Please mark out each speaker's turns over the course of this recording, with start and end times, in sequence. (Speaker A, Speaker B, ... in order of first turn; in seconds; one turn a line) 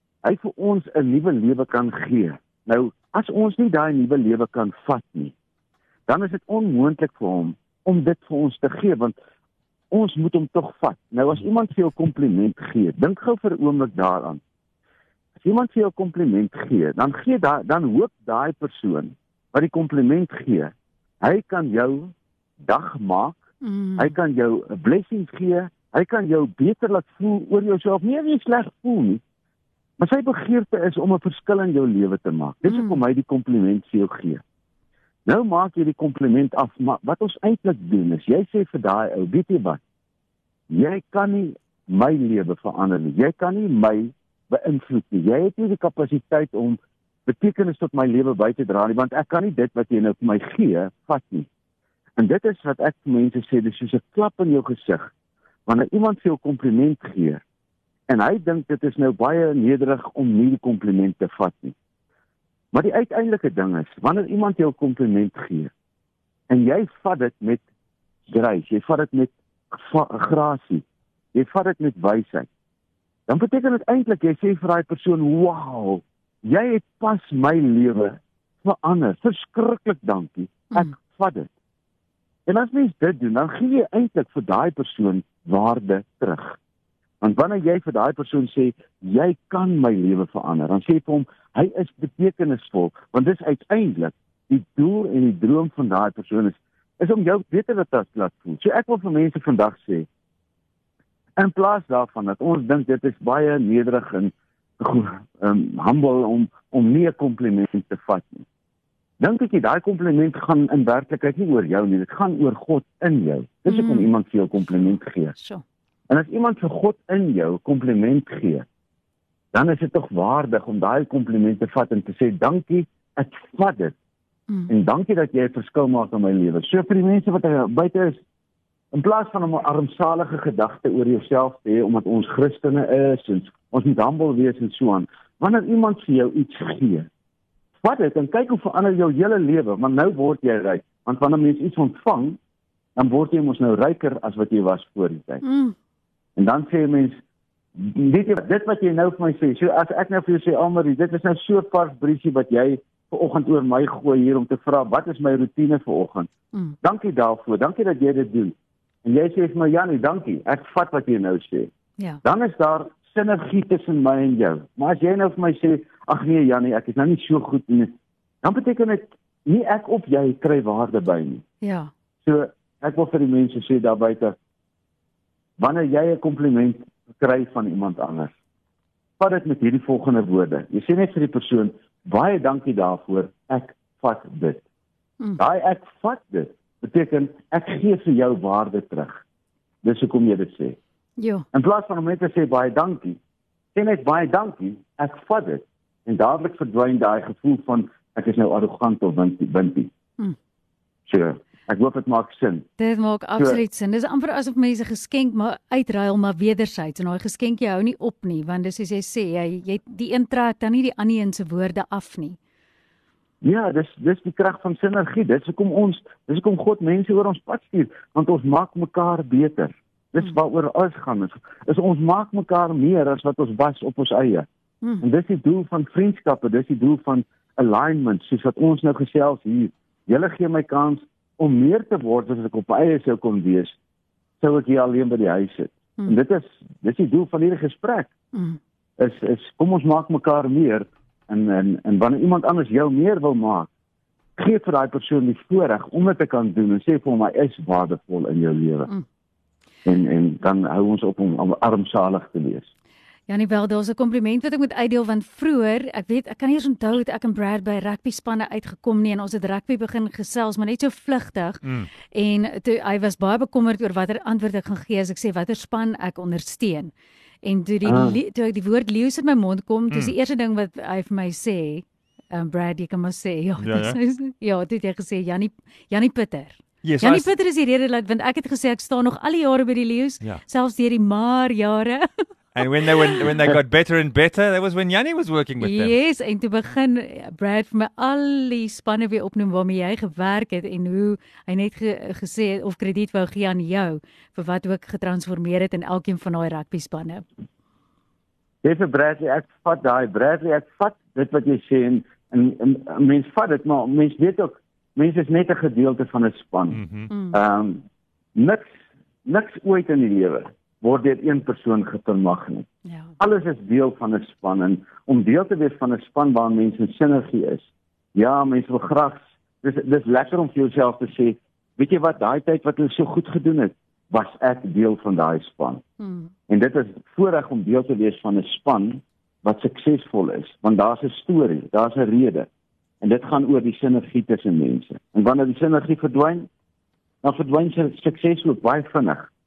Speaker A: 0.2-5.3
Speaker A: 6.1-9.2
Speaker A: 9.9-14.4
Speaker A: 15.4-22.1
Speaker A: 22.6-23.4
Speaker B: 23.6-24.1
Speaker A: 24.0-29.2
Speaker A: 30.0-34.4
Speaker B: 32.6-33.0
Speaker A: 35.3-39.8
Speaker A: 40.7-51.5
Speaker A: 52.2-55.1
Speaker A: 55.7-57.4
Speaker A: 58.1-61.8
Speaker A: 62.7-65.7
Speaker A: 66.5-67.6
Speaker A: 68.3-70.8
Speaker A: 71.3-72.5
Speaker A: 73.3-81.5
Speaker A: 82.5-86.6
Speaker A: 87.2-100.1
Speaker A: 101.4-108.5
Speaker A: 109.2-115.3
Speaker B: 113.7-114.1
Speaker B: 114.8-115.6
Speaker A: 116.1-118.7
Speaker A: 119.5-124.0
Speaker A: 124.7-128.2
Speaker A: 128.9-137.1
Speaker A: 137.8-142.4
Speaker A: 143.0-145.4
Speaker B: 145.4-145.8
Speaker A: 146.4-147.2
Speaker A: 147.8-156.3
Speaker A: 156.8-161.7
Speaker A: 162.2-171.4
Speaker B: 171.6-171.9
Speaker A: 172.2-174.3
Speaker A: 175.6-178.3
Speaker A: 179.2-184.6
Speaker A: 185.4-189.2
Speaker A: 189.8-190.8
Speaker B: 191.2-191.5
Speaker A: 191.5-193.2
Speaker A: 193.8-199.9
Speaker A: 201.1-202.7
Speaker B: 202.8-212.4
Speaker A: 213.4-224.5
Speaker A: 225.0-233.8
Speaker A: 234.4-238.1
Speaker B: 238.3-238.6
Speaker A: 239.0-243.7
Speaker A: 244.4-248.9
Speaker A: 249.8-252.7
Speaker B: 253.3-282.1
Speaker C: 261.6-261.9
Speaker A: 267.9-268.2
Speaker C: 273.6-274.0
Speaker C: 276.8-277.3
Speaker C: 282.5-285.9
Speaker B: 285.6-297.2
Speaker A: 298.6-308.7
Speaker C: 306.7-307.1
Speaker B: 307.1-307.4
Speaker A: 309.2-312.7
Speaker B: 312.9-313.1
Speaker A: 313.2-325.8
Speaker B: 326.0-326.3
Speaker A: 326.5-332.5
Speaker A: 333.0-336.5
Speaker A: 337.2-339.3